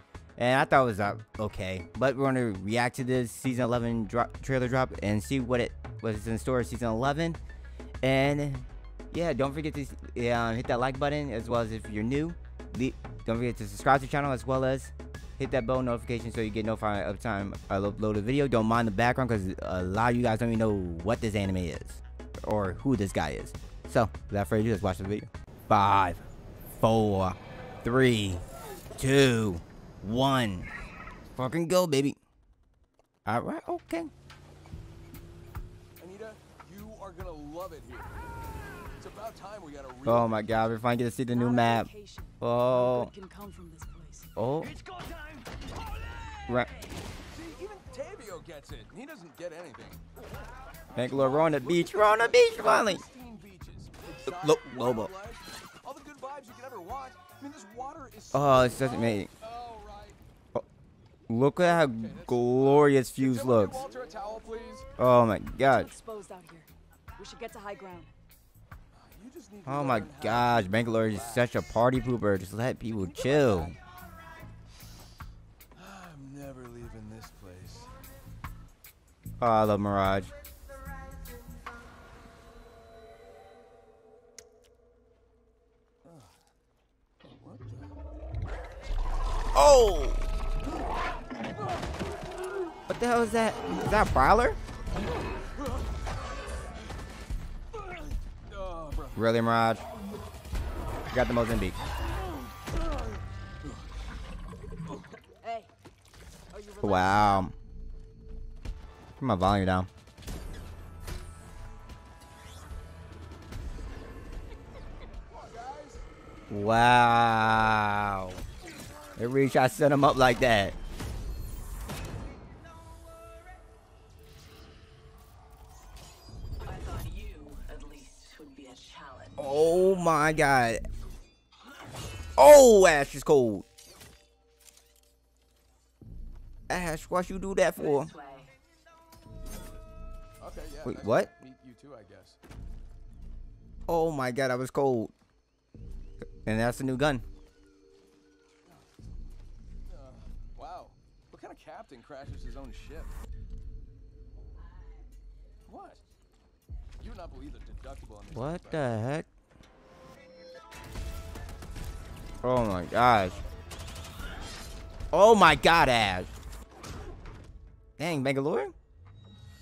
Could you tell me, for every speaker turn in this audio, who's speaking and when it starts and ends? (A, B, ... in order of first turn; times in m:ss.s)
0:00.4-0:07.4 A
0:08.0-0:26.2 A
0:26.8-0:28.4 A
0:29.0-0:30.7 A
0:31.4-0:32.2 A
0:33.2-0:34.1 A
0:36.0-0:38.1 B
0:39.0-0:40.4 B
0:40.0-0:41.9 A
0:41.3-0:44.3 C
0:42.4-0:43.1 A
0:44.4-0:44.7 A
0:44.7-0:45.6 B
0:46.5-0:46.7 A
0:47.3-0:50.0 B
0:50.9-1:00.2 B
0:51.0-0:53.0 A
0:54.3-0:55.1 A
0:58.3-0:59.3 A
1:01.3-1:03.8 A
1:01.6-1:04.9 B
1:05.0-1:05.9 A
1:05.7-1:08.1 C
1:08.9-1:11.6 B
1:09.6-1:13.8 A
1:13.0-1:13.8 B
1:15.7-1:17.9 B
1:19.4-1:20.3 A
1:26.0-1:26.3 B
1:27.4-1:27.9 B
1:29.5-1:30.3 A
1:32.9-1:34.6 A
1:37.7-1:39.2 B
1:39.2-1:39.8 A
1:41.1-1:41.8 A
1:42.1-1:43.8 B
1:45.4-1:45.7 C
1:46.5-1:47.4 C
1:46.8-1:47.5 A
1:49.2-1:49.9 A
1:55.3-1:56.0 B
1:56.5-1:58.4 A
1:58.6-1:59.8 B
1:59.2-2:00.8 A
2:06.6-2:09.5 D
2:09.4-2:10.8 A
2:12.4-2:13.6 A
2:16.7-2:18.1 A
2:17.8-2:18.5 D
2:20.4-2:22.4 B
2:20.8-2:21.3 A
2:23.9-2:25.1 A
2:26.4-2:27.2 A
2:29.8-2:33.1 B
2:35.6-2:36.0 B
2:37.0-2:39.0 B
2:38.3-2:39.3 A
2:42.4-2:43.4 A
2:45.1-2:46.3 A
2:48.0-2:48.7 A